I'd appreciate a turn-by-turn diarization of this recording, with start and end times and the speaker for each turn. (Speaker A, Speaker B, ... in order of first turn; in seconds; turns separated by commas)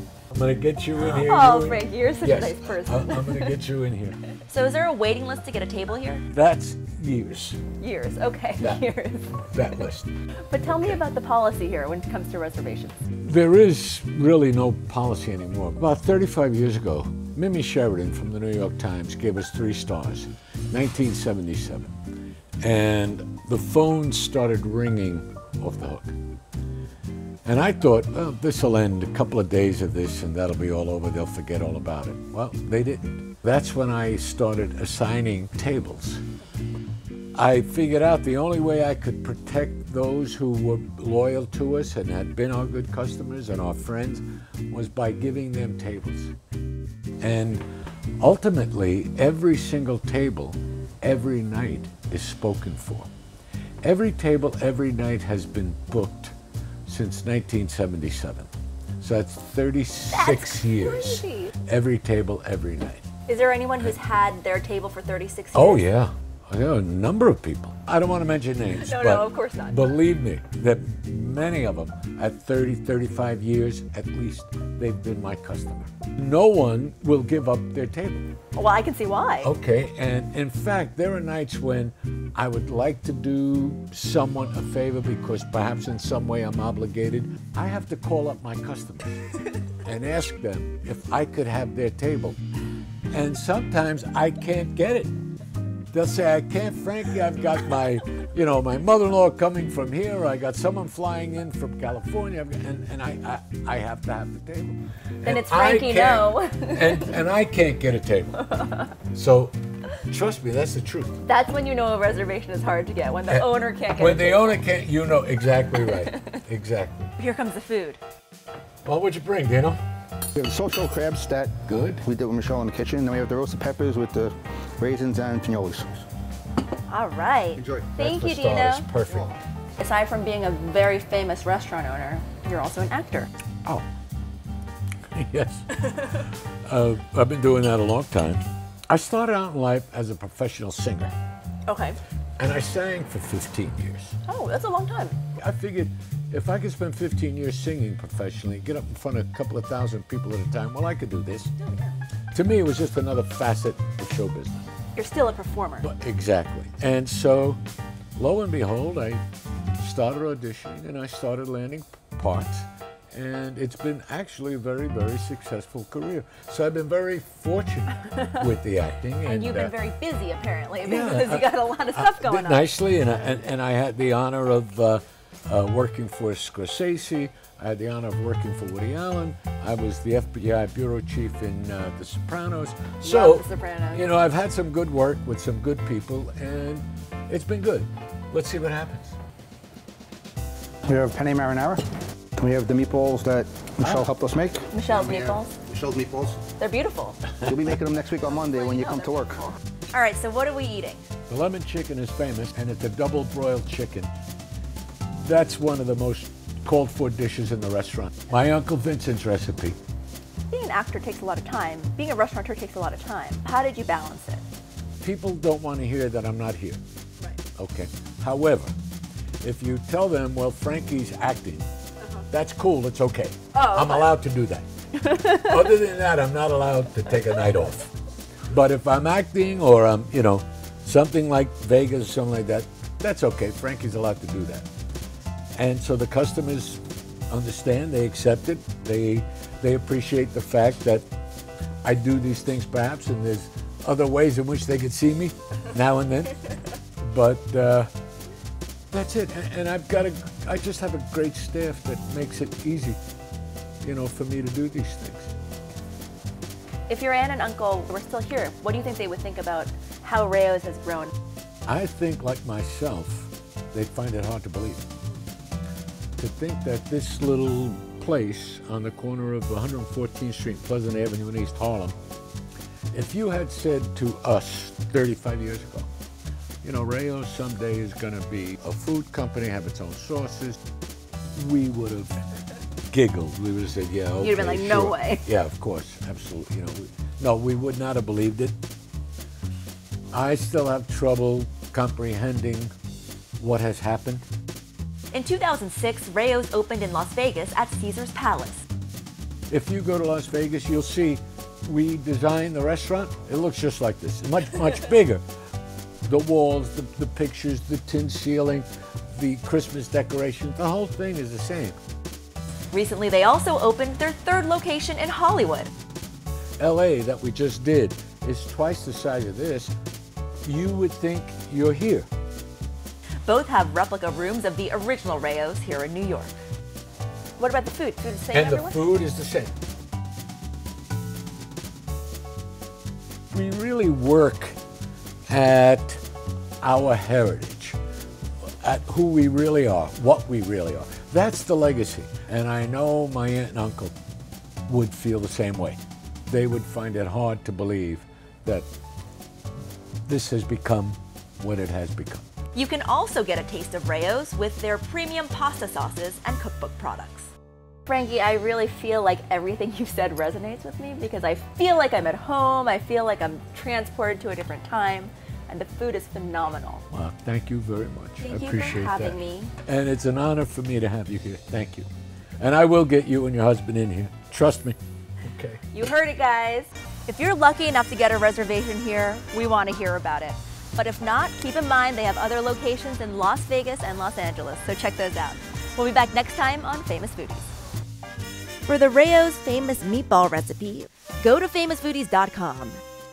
Speaker A: 0.3-4.2, Speaker B: 1.0-3.5, Speaker B: 4.3-6.2, Speaker A: 6.3-7.6, Speaker B: 7.8-9.5, Speaker A: 8.6-10.1, Speaker B: 10.5-13.0, Speaker A: 10.6-11.0, Speaker A: 13.2-21.9, Speaker A: 22.6-26.2, Speaker A: 27.4-36.2, Speaker A: 37.4-46.3, Speaker A: 47.2-47.6, Speaker A: 48.2-53.1, Speaker A: 53.8-56.3, Speaker A: 56.9-63.0, Speaker B: 60.1-61.5, Speaker B: 63.3-65.8, Speaker A: 65.5-78.2, Speaker B: 68.7-69.9, Speaker B: 78.5-79.5, Speaker A: 79.4-89.3, Speaker A: 89.8-92.4, Speaker A: 93.1-95.1, Speaker A: 95.9-111.2, Speaker B: 105.2-107.1, Speaker B: 108.5-108.9, Speaker B: 111.2-114.6, Speaker A: 113.3-117.1, Speaker B: 115.8-116.4, Speaker B: 117.2-118.0, Speaker A: 118.8-119.8, Speaker C: 120.3-126.0, Speaker A: 121.7-122.0, Speaker B: 126.9-128.9, Speaker C: 127.6-127.9, Speaker A: 127.9-129.4, Speaker B: 129.8-133.3, Speaker A: 135.1-141.1, Speaker B: 141.7-142.0, Speaker A: 142.4-144.1, Speaker B: 144.2-145.2, Speaker A: 145.3-151.5, Speaker A: 152.3-154.7, Speaker B: 154.9-155.9, Speaker A: 155.8-157.6, Speaker A: 158.2-159.2, Speaker A: 159.8-169.7, Speaker B: 169.2-172.6, Speaker A: 170.8-189.2, Speaker B: 183.0-184.1, Speaker C: 190.8-191.8, Speaker C: 192.4-196.4, Speaker B: 194.7-195.5, Speaker B: 196.6-197.2, Speaker C: 197.4-199.4, Speaker B: 198.3-201.1, Speaker A: 201.3-204.1, Speaker A: 205.2-209.8, Speaker B: 210.5-214.4, Speaker A: 215.0-216.8, Speaker A: 217.6-218.7, Speaker A: 219.4-221.7, Speaker A: 222.3-227.9, Speaker B: 223.5-224.1, Speaker B: 225.1-225.4, Speaker A: 228.5-234.7, Speaker A: 235.6-241.1, Speaker A: 241.8-246.5, Speaker A: 247.0-247.9, Speaker A: 248.9-253.0, Speaker A: 253.8-255.3, Speaker B: 256.9-261.1, Speaker A: 261.7-264.9, Speaker A: 266.2-271.9, Speaker A: 272.9-275.9, Speaker A: 276.6-280.6, Speaker A: 281.3-282.2, Speaker A: 282.9-288.6, Speaker B: 284.2-285.2, Speaker A: 290.1-292.7, Speaker A: 293.4-294.2, Speaker B: 295.1-298.6, Speaker A: 299.5-305.2, Speaker A: 306.1-311.8, Speaker B: 312.7-315.7, Speaker A: 316.6-319.7, Speaker A: 320.4-322.1, Speaker B: 323.2-326.3, Speaker B: 327.4-328.8, Speaker A: 328.3-329.5, Speaker A: 333.3-334.6, Speaker A: 335.3-336.0, Speaker A: 336.6-337.8, Speaker A: 338.6-343.9, Speaker A: 344.7-348.7, Speaker A: 350.1-352.2, Speaker B: 352.5-357.3, Speaker B: 357.9-366.8, Speaker A: 366.9-371.9, Speaker B: 368.2-369.5, Speaker A: 372.4-375.6, Speaker B: 375.7-387.5, Speaker B: 388.6-392.8